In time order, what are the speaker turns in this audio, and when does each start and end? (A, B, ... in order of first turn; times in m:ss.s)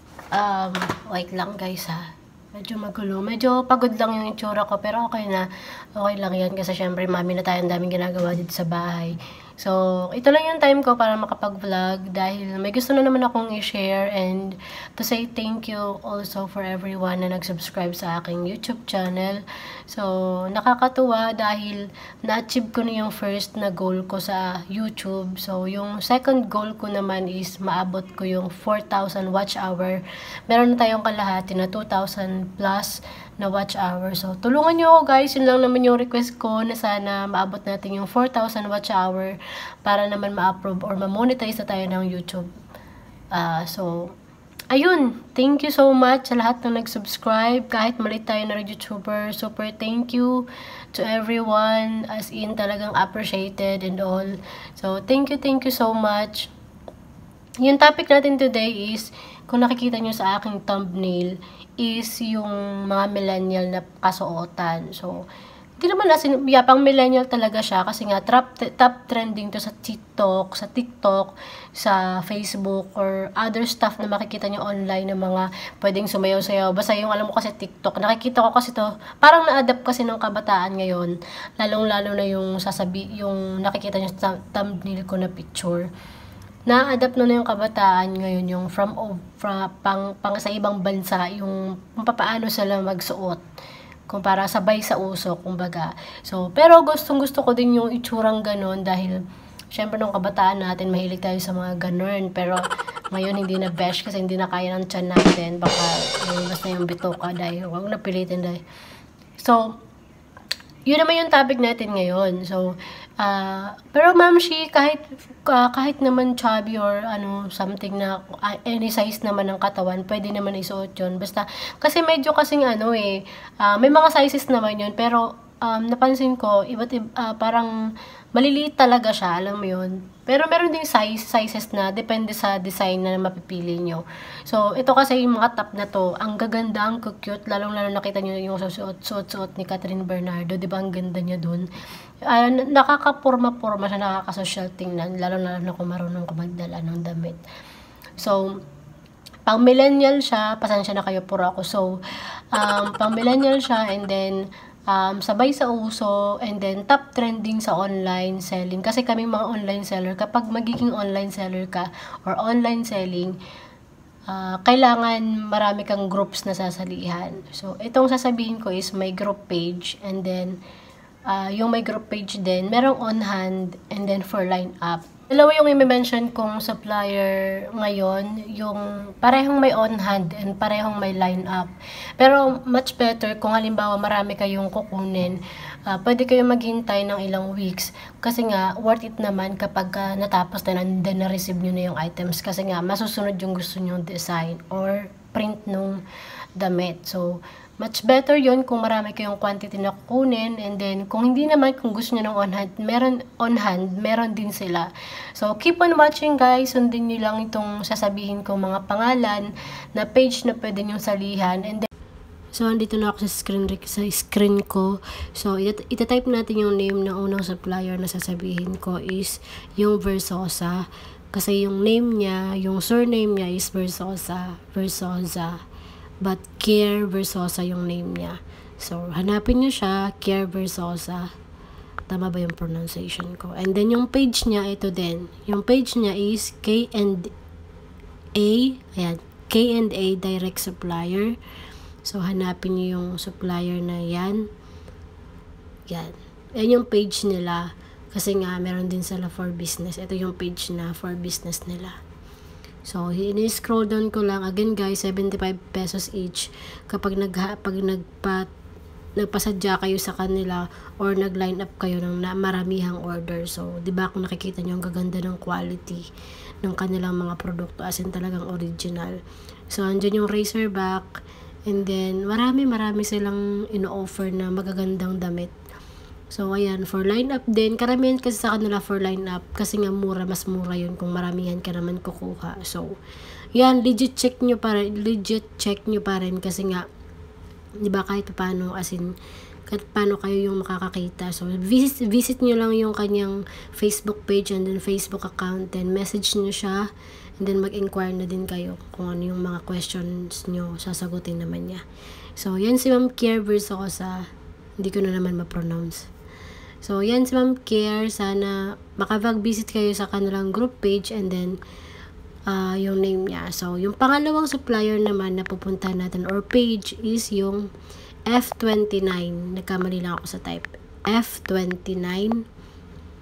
0:00.3-0:42.5 A
0:43.3-0:44.1 A
0:44.7-0:56.5 A
0:57.6-1:05.2 A
1:05.8-1:25.9 A
1:26.7-1:33.4 A
1:34.1-1:39.2 A
1:39.7-1:48.6 A
1:49.4-1:49.8 A
1:50.9-2:07.7 A
2:08.3-2:21.7 A
2:22.3-2:27.4 A
2:28.2-2:28.6 A
2:29.5-2:32.0 A
2:32.5-2:43.4 A
2:44.3-2:50.6 A
2:51.3-3:16.0 A
3:16.6-3:31.9 A
3:32.5-3:45.6 A
3:46.2-3:51.3 A
3:52.1-3:57.3 A
3:58.4-4:01.4 A
4:02.0-4:04.5 A
4:05.9-4:12.0 A
4:12.8-4:18.5 A
4:19.2-4:26.1 A
4:26.6-4:29.2 A
4:29.7-4:35.5 A
4:36.3-4:42.9 A
4:43.5-4:46.9 A
4:47.8-4:49.1 A
4:49.7-4:56.9 A
4:57.4-5:01.8 A
5:02.4-5:06.1 A
5:06.8-5:11.6 A
5:12.5-5:17.7 A
5:18.3-5:22.4 A